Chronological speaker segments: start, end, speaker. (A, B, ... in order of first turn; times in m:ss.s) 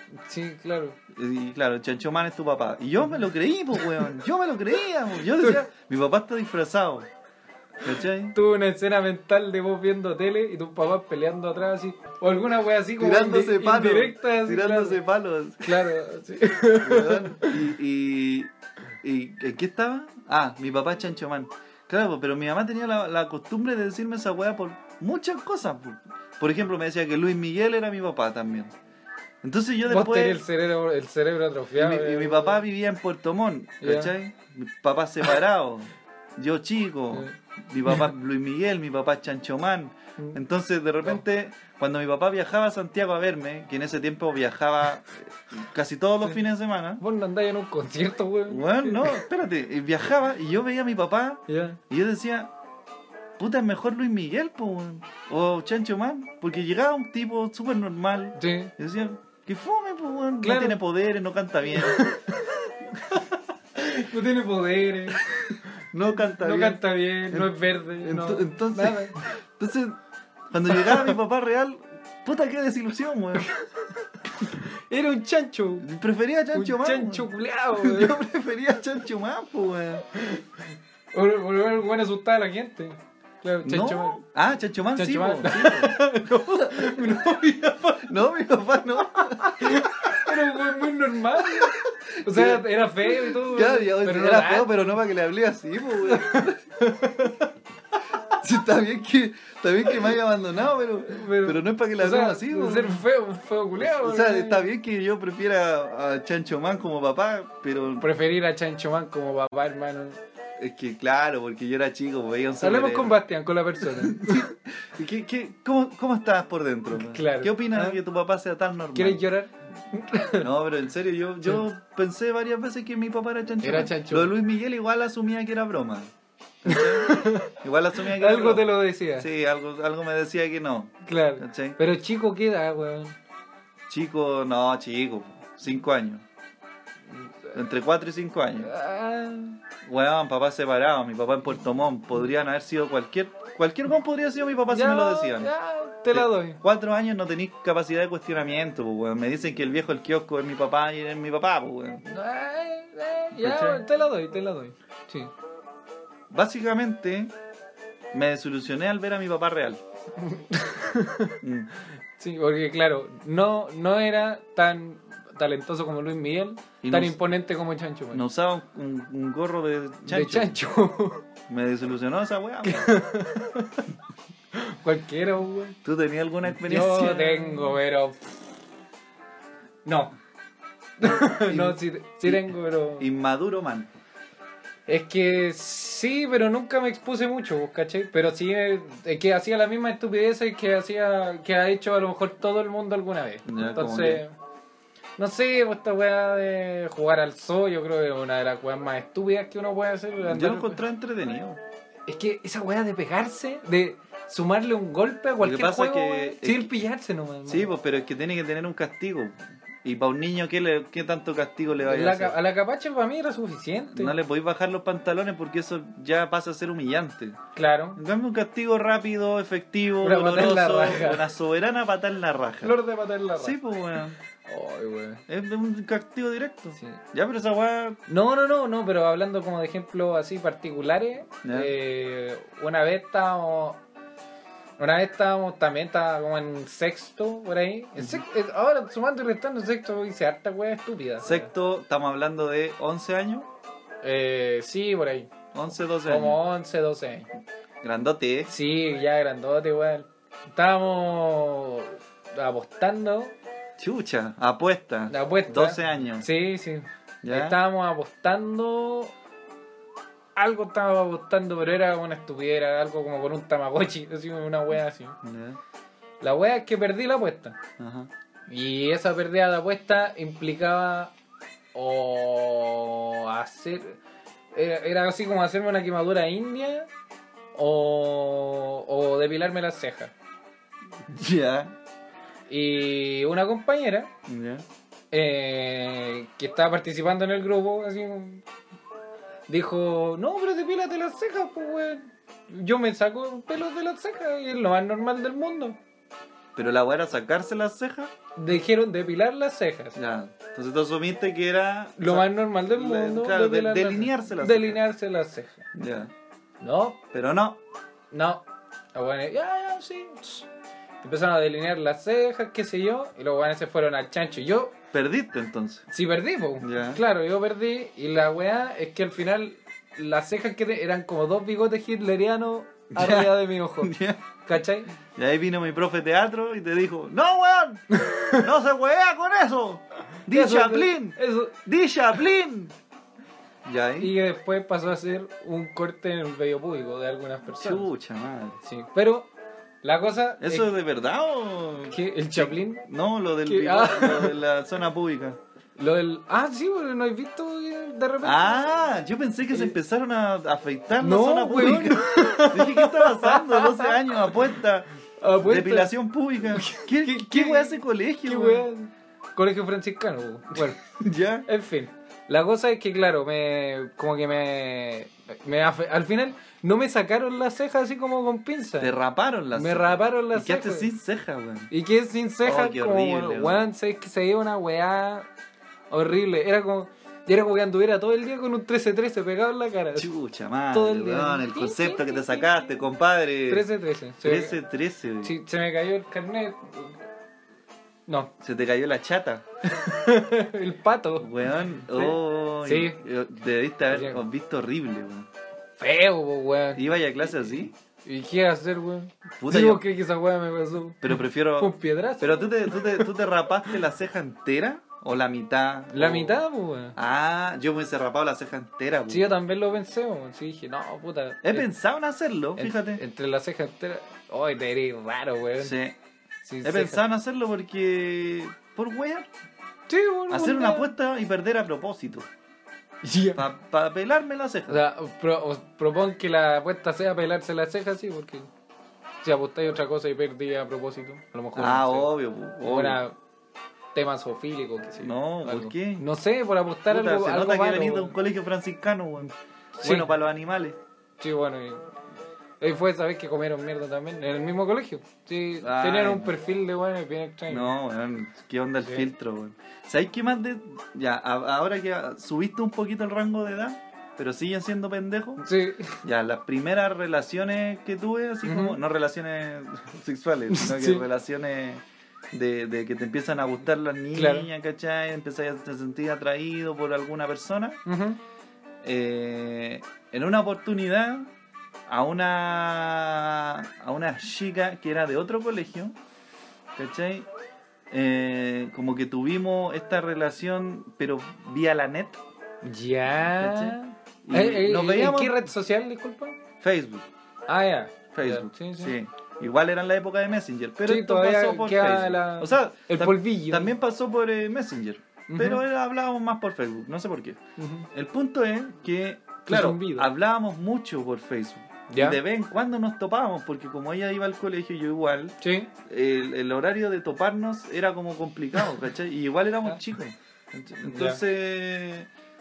0:00.2-0:01.0 A
0:01.1-0:07.1 B
0:07.8-0:08.4 B
0:08.3-0:15.0 A
0:13.0-0:15.8 B
0:15.6-0:17.6 A
0:16.8-0:18.5 B
0:19.0-0:28.7 B
0:29.4-0:30.4 B
0:29.9-0:32.6 A
0:31.8-0:47.0 B
0:33.8-0:34.1 A
0:47.0-0:49.3 A
0:48.5-0:52.5 B
0:51.5-0:51.8 A
0:53.4-1:02.1 B
0:58.4-0:58.7 A
1:00.4-1:00.8 A
1:01.8-1:05.3 A
1:05.9-1:10.0 B
1:06.4-1:09.2 A
1:10.5-1:13.5 B
1:10.7-1:11.1 A
1:14.3-1:15.9 A
1:15.8-1:20.0 B
1:16.5-1:18.2 A
1:20.1-1:20.5 A
1:21.1-1:24.2 A
1:23.6-1:27.2 B
1:25.0-1:28.1 A
1:28.0-1:30.3 B
1:29.4-1:34.8 A
1:31.4-1:36.6 B
1:36.0-1:37.5 A
1:38.3-1:43.0 B
1:41.0-1:44.7 A
1:43.8-1:48.1 B
1:48.0-1:50.2 A
1:50.6-1:53.2 B
1:52.6-1:54.5 A
1:53.8-1:59.2 B
1:56.9-1:58.0 A
1:58.9-2:00.5 A
2:00.4-2:11.8 B
2:03.6-2:04.4 A
2:06.7-2:09.3 A
2:11.0-2:13.2 A
2:13.9-2:16.2 B
2:17.3-2:17.6 A
2:17.5-2:18.7 B
2:18.6-2:19.6 A
2:19.8-2:25.5 B
2:24.7-2:26.6 A
2:26.1-2:32.0 B
2:32.0-2:35.3 A
2:33.4-2:33.8 B
2:36.3-2:37.3 B
2:38.1-2:39.8 B
2:40.2-2:41.4 A
2:41.4-2:41.7 B
2:42.2-2:48.2 A
2:46.8-2:47.2 B
2:48.1-2:50.6 B
2:50.1-2:51.3 A
2:51.5-2:52.9 B
2:52.6-2:53.8 A
2:54.5-2:55.8 A
2:55.8-2:57.8 B
2:56.6-2:58.2 A
2:59.8-3:00.2 A
3:01.0-3:03.1 A
3:01.0-3:03.9 B
3:04.9-3:14.4 A
3:13.5-3:14.2 B
3:15.2-3:20.8 A
3:20.2-3:21.6 B
3:22.1-3:27.7 A
3:25.4-3:26.8 B
3:27.5-3:32.4 B
3:31.8-3:34.2 A
3:33.9-3:37.4 B
3:37.6-3:38.0 A
3:38.0-3:42.8 B
3:40.0-3:41.3 A
3:42.6-3:43.6 A
3:43.4-3:44.2 B
3:44.4-3:45.2 A
3:45.3-3:48.0 B
3:48.1-3:53.8 A
3:51.4-3:51.7 B
3:54.8-4:01.5 A
3:58.0-3:58.2 B
4:01.2-4:03.5 B
4:04.0-4:05.3 A
4:05.5-4:06.4 B
4:06.0-4:07.3 A
4:07.8-4:08.5 B
4:08.5-4:13.4 A
4:13.8-4:16.3 B
4:15.1-4:19.1 A
4:17.2-4:17.6 B
4:20.4-4:25.2 A
4:25.2-4:25.6 B
4:26.2-4:27.6 A
4:27.8-4:28.1 B
4:28.5-4:31.1 A
4:31.7-4:34.0 A
4:34.5-4:36.9 A
4:37.5-4:40.1 A
4:41.1-4:41.8 B
4:42.5-4:44.1 A
4:44.3-4:44.6 B
4:45.1-4:48.4 A
4:49.5-4:55.8 A
4:56.6-4:58.1 B
4:58.4-5:00.0 A
5:00.0-5:04.8 B
5:02.0-5:05.7 A
5:05.7-5:06.1 B
5:06.6-5:07.0 A
5:07.1-5:07.6 B
5:08.1-5:10.5 A
5:11.0-5:14.8 A
5:14.9-5:15.9 B
5:15.9-5:24.9 A
5:16.6-5:17.0 B
5:23.0-5:24.2 B
5:25.2-5:32.8 B
5:27.9-5:28.5 A
5:30.3-5:31.6 A
5:33.6-5:34.1 B
5:34.0-5:37.9 A
5:37.6-5:38.6 B
5:38.6-5:39.3 A
5:39.8-5:40.7 A
5:40.4-5:45.4 B
5:41.9-5:42.8 A
5:43.4-5:44.4 A
5:45.8-5:48.8 A
5:48.2-5:54.9 B
5:51.0-5:54.4 A
5:55.2-5:56.0 A
5:55.4-5:58.7 B
5:56.6-6:00.8 A
6:00.6-6:01.5 B
6:01.5-6:08.9 A
6:08.8-6:11.7 B
6:09.5-6:10.9 A
6:11.7-6:15.3 A
6:12.4-6:13.7 B
6:15.9-6:20.1 A
6:20.0-6:23.7 B
6:20.7-6:22.8 A
6:23.5-6:24.6 A
6:24.2-6:25.4 B
6:25.2-6:27.0 A
6:28.4-6:29.4 B
6:29.6-6:31.3 A
6:31.2-6:35.3 B
6:31.9-6:33.0 A
6:33.9-6:34.2 A
6:35.8-6:43.8 A
6:36.8-6:37.7 B
6:39.4-6:39.8 B
6:41.0-6:46.4 B
6:45.9-6:47.0 A
6:47.0-6:49.4 B
6:49.1-6:51.7 A
6:51.4-6:53.0 B
6:52.6-6:55.8 A
6:55.6-6:56.0 B
6:56.4-6:57.0 A
6:56.6-6:59.3 B
6:59.9-7:00.9 A
7:00.3-7:02.3 B
7:03.0-7:03.5 A
7:03.4-7:04.8 B
7:04.7-7:08.5 A
7:09.2-7:12.1 A
7:11.6-7:13.0 B
7:12.6-7:13.2 A
7:14.0-7:18.2 A
7:15.0-7:16.0 B
7:16.9-7:20.8 B
7:19.8-7:20.1 A
7:21.2-7:21.9 A
7:22.6-7:27.7 A
7:25.6-7:26.3 B
7:27.5-7:35.5 B
7:28.8-7:29.1 A
7:35.4-7:36.0 A
7:36.0-7:47.8 B
7:38.4-7:38.8 A
7:40.5-7:41.0 A
7:44.1-7:44.5 A
7:47.9-7:48.2 A
7:48.8-7:51.3 B
7:51.9-7:56.0 B
7:56.8-7:57.3 B
7:57.9-8:02.2 B
8:02.6-8:06.4 A
8:03.4-8:05.5 B
8:06.6-8:07.1 B
8:07.5-8:09.0 A
8:08.1-8:17.4 B
8:10.8-8:13.7 A
8:15.3-8:15.6 A
8:17.6-8:17.9 A
8:17.9-8:32.1 B
8:19.5-8:20.1 A
8:21.9-8:22.2 A
8:25.4-8:25.7 A
8:30.9-8:31.2 A